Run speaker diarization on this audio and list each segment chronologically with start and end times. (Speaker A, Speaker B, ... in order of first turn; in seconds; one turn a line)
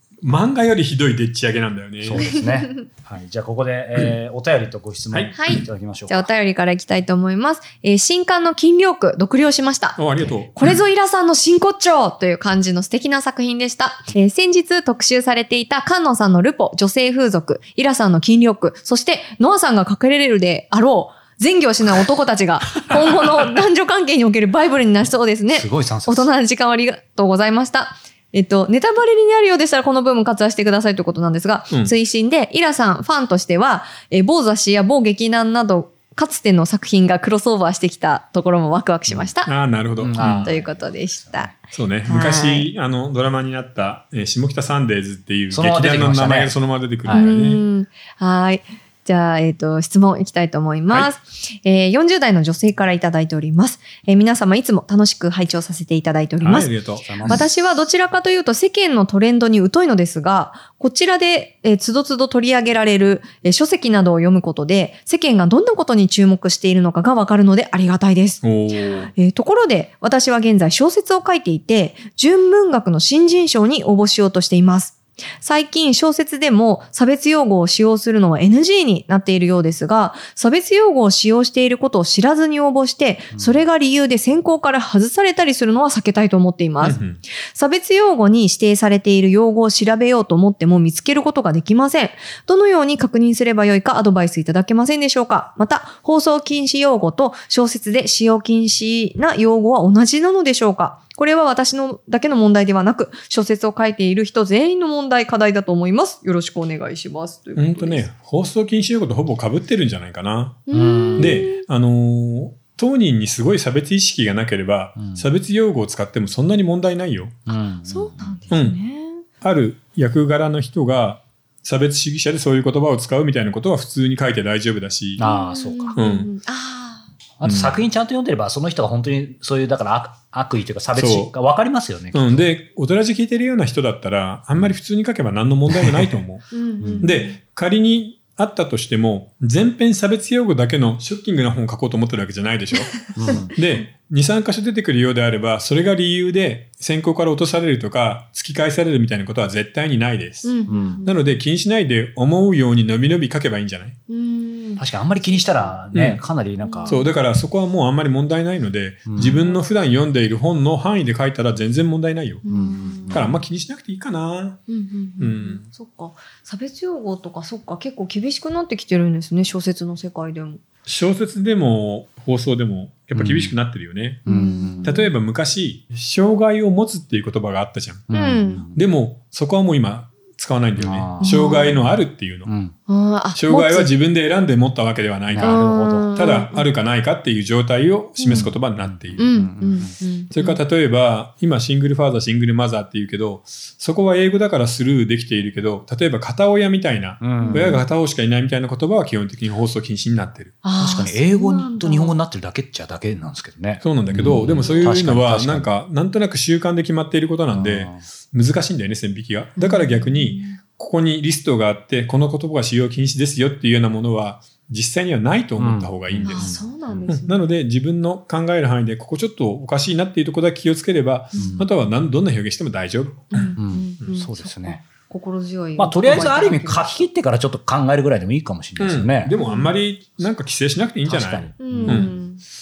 Speaker A: 0.2-2.3
Speaker B: 2.0-6.3
Speaker C: 2.2-2.9
Speaker C: 5.3-10.0
Speaker A: 10.0-10.7
Speaker C: 10.5-39.5
Speaker B: 25.5-26.3
Speaker A: 39.5-40.5
Speaker B: 40.0-41.5
Speaker C: 40.2-41.5
Speaker A: 41.7-47.6
Speaker C: 42.0-42.7
Speaker B: 45.5-47.3
Speaker C: 47.1-56.7
Speaker A: 56.4-57.4
Speaker B: 57.0-57.5
Speaker C: 57.2-68.4
Speaker A: 68.4-69.1
Speaker C: 69.1-108.0
Speaker B: 83.3-83.6
Speaker A: 86.8-87.2
Speaker A: 107.5-110.6
Speaker C: 110.7-111.6
Speaker B: 110.7-111.5
Speaker A: 111.2-117.4
Speaker B: 115.0-115.2
Speaker B: 117.5-118.4
Speaker C: 117.8-119.2
Speaker A: 118.5-118.8
Speaker A: 119.4-125.2
Speaker B: 125.2-126.0
Speaker C: 125.2-127.1
Speaker A: 126.0-126.3
Speaker B: 127.4-132.5
Speaker A: 127.4-127.8
Speaker A: 130.9-131.3
Speaker A: 132.1-150.5
Speaker B: 135.7-136.1
Speaker C: 136.5-137.4
Speaker B: 136.8-137.1
Speaker B: 143.2-143.5
Speaker C: 150.4-151.2
Speaker B: 150.7-151.0
Speaker A: 151.0-154.0
Speaker C: 154.1-155.8
Speaker B: 154.8-157.1
Speaker A: 155.9-156.2
Speaker C: 156.6-157.1
Speaker A: 156.8-162.4
Speaker B: 159.1-159.4
Speaker C: 159.2-159.7
Speaker C: 162.4-163.3
Speaker B: 162.4-163.3
Speaker A: 163.1-164.6
Speaker C: 164.7-170.6
Speaker A: 165.2-165.7
Speaker A: 170.8-174.2
Speaker B: 173.1-173.5
Speaker B: 174.2-175.0
Speaker C: 174.2-175.1
Speaker A: 174.8-178.1
Speaker B: 178.1-178.8
Speaker C: 178.1-178.7
Speaker A: 178.7-182.5
Speaker B: 180.8-181.5
Speaker C: 181.2-181.8
Speaker B: 182.4-182.7
Speaker C: 182.9-183.9
Speaker A: 183.3-189.3
Speaker B: 185.3-186.2
Speaker C: 185.4-186.7
Speaker C: 188.2-188.5
Speaker B: 188.2-189.9
Speaker C: 189.2-190.6
Speaker A: 190.3-200.6
Speaker B: 197.2-197.8
Speaker C: 197.4-197.8
Speaker C: 200.6-202.2
Speaker B: 200.8-205.7
Speaker A: 203.8-223.4
Speaker C: 204.2-204.9
Speaker B: 207.5-208.0
Speaker C: 209.6-210.6
Speaker B: 215.6-217.1
Speaker C: 216.2-217.4
Speaker C: 221.3-221.6
Speaker B: 221.4-221.7
Speaker C: 223.3-227.1
Speaker B: 223.5-224.8
Speaker B: 225.8-229.3
Speaker A: 228.8-232.1
Speaker C: 229.4-229.7
Speaker B: 231.1-232.2
Speaker C: 231.6-232.4